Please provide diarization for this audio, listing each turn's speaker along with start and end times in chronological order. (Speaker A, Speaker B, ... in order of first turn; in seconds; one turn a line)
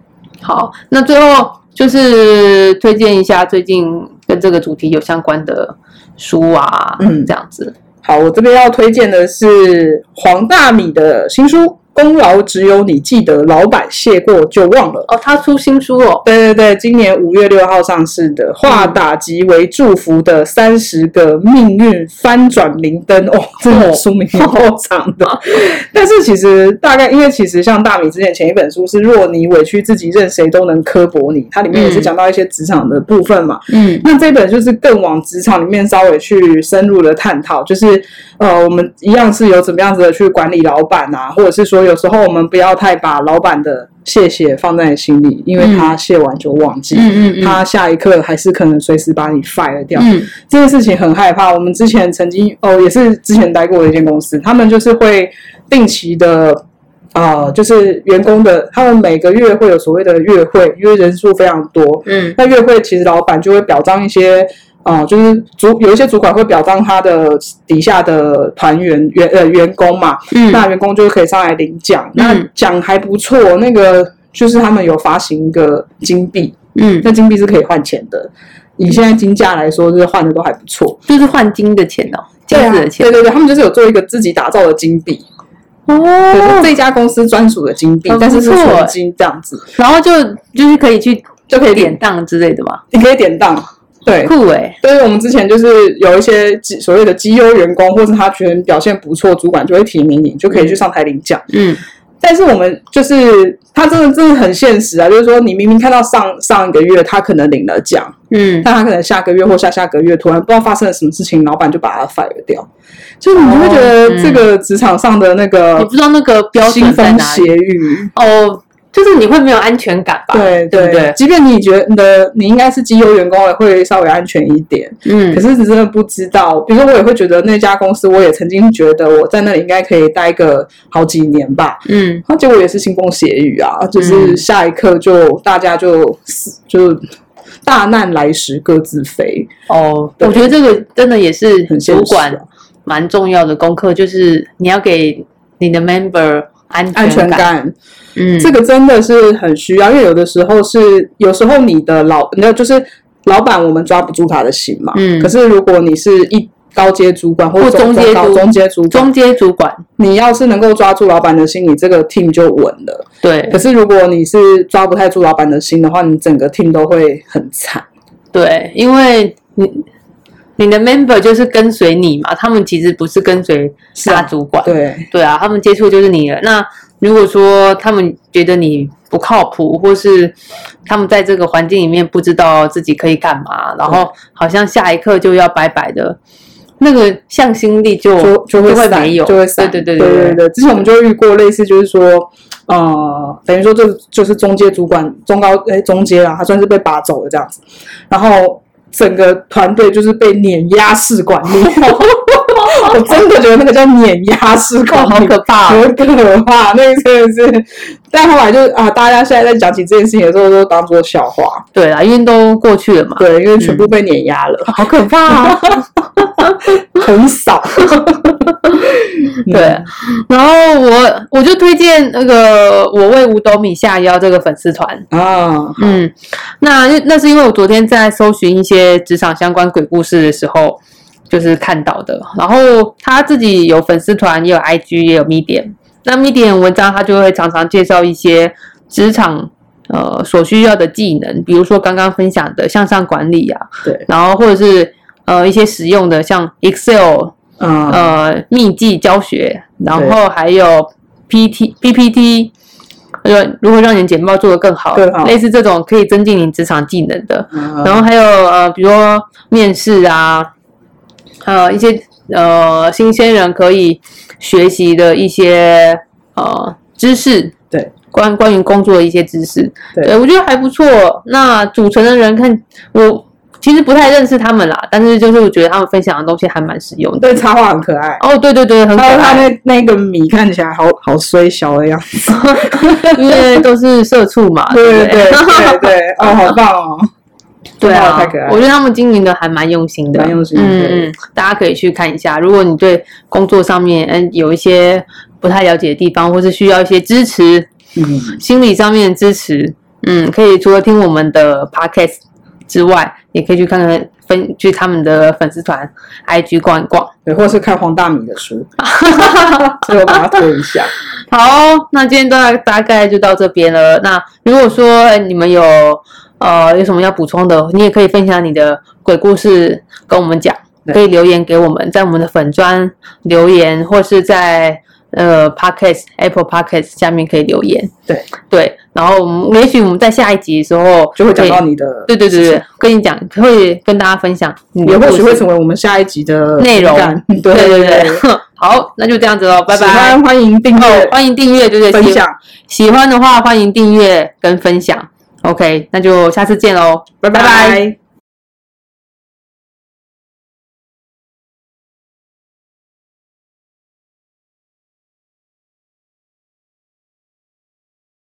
Speaker A: 0.4-7.7
Speaker B: 7.0-7.3
Speaker B: 8.0-15.1
Speaker A: 15.1-16.2
Speaker B: 16.2-56.6
Speaker A: 18.7-18.9
Speaker A: 23.7-24.0
Speaker A: 31.7-32.1
Speaker A: 33.7-34.0
Speaker A: 45.6-45.9
Speaker A: 46.9-47.6
Speaker A: 50.0-50.3
Speaker B: 57.1-81.0
Speaker A: 62.0-62.4
Speaker A: 70.3-70.6
Speaker A: 72.2-72.5
Speaker A: 76.7-77.1
Speaker A: 81.1-83.2
Speaker B: 82.5-85.2
Speaker A: 85.9-86.7
Speaker B: 86.3-89.6
Speaker A: 88.1-89.0
Speaker A: 89.7-92.8
Speaker B: 91.5-92.0
Speaker B: 92.9-101.4
Speaker A: 94.2-94.8
Speaker A: 101.5-101.8
Speaker B: 102.2-112.7
Speaker A: 108.3-108.7
Speaker B: 113.2-115.9
Speaker A: 113.4-114.4
Speaker A: 115.8-117.5
Speaker B: 116.5-118.1
Speaker A: 118.1-121.2
Speaker B: 120.3-137.0
Speaker A: 125.0-125.4
Speaker A: 131.9-132.2
Speaker A: 134.0-134.4
Speaker B: 137.6-139.5
Speaker A: 139.7-147.5
Speaker B: 140.2-140.5
Speaker B: 141.7-142.4
Speaker B: 146.9-147.7
Speaker A: 148.2-148.5
Speaker B: 148.4-159.1
Speaker A: 154.9-155.3
Speaker A: 157.6-159.8
Speaker B: 160.0-167.8
Speaker A: 163.2-163.6
Speaker A: 168.3-169.8
Speaker A: 170.6-180.3
Speaker B: 173.9-175.1
Speaker A: 180.8-186.2
Speaker A: 186.8-190.4
Speaker B: 188.2-211.6
Speaker A: 204.9-205.9
Speaker A: 211.7-213.9
Speaker B: 213.2-215.8
Speaker A: 214.7-215.8
Speaker B: 216.4-219.8
Speaker A: 219.4-225.1
Speaker B: 225.1-226.0
Speaker A: 225.8-247.3
Speaker B: 247.6-248.1
Speaker A: 247.9-252.5
Speaker A: 253.2-260.5
Speaker B: 254.9-255.4
Speaker B: 257.5-258.0
Speaker A: 261.4-267.5
Speaker A: 268.1-277.3
Speaker B: 277.2-278.2
Speaker A: 278.2-279.5
Speaker B: 278.9-283.6
Speaker A: 282.3-285.9
Speaker B: 284.7-287.1
Speaker A: 287.8-297.7
Speaker B: 287.8-288.6
Speaker B: 290.1-291.1
Speaker B: 297.9-298.4
Speaker A: 298.4-307.1
Speaker B: 307.2-310.9
Speaker A: 308.8-310.2
Speaker A: 311.3-327.9
Speaker A: 328.5-335.4
Speaker B: 331.1-332.6
Speaker B: 334.8-338.2
Speaker A: 336.6-340.2
Speaker B: 339.7-341.1
Speaker A: 340.8-347.8
Speaker B: 341.9-342.4
Speaker B: 347.2-348.0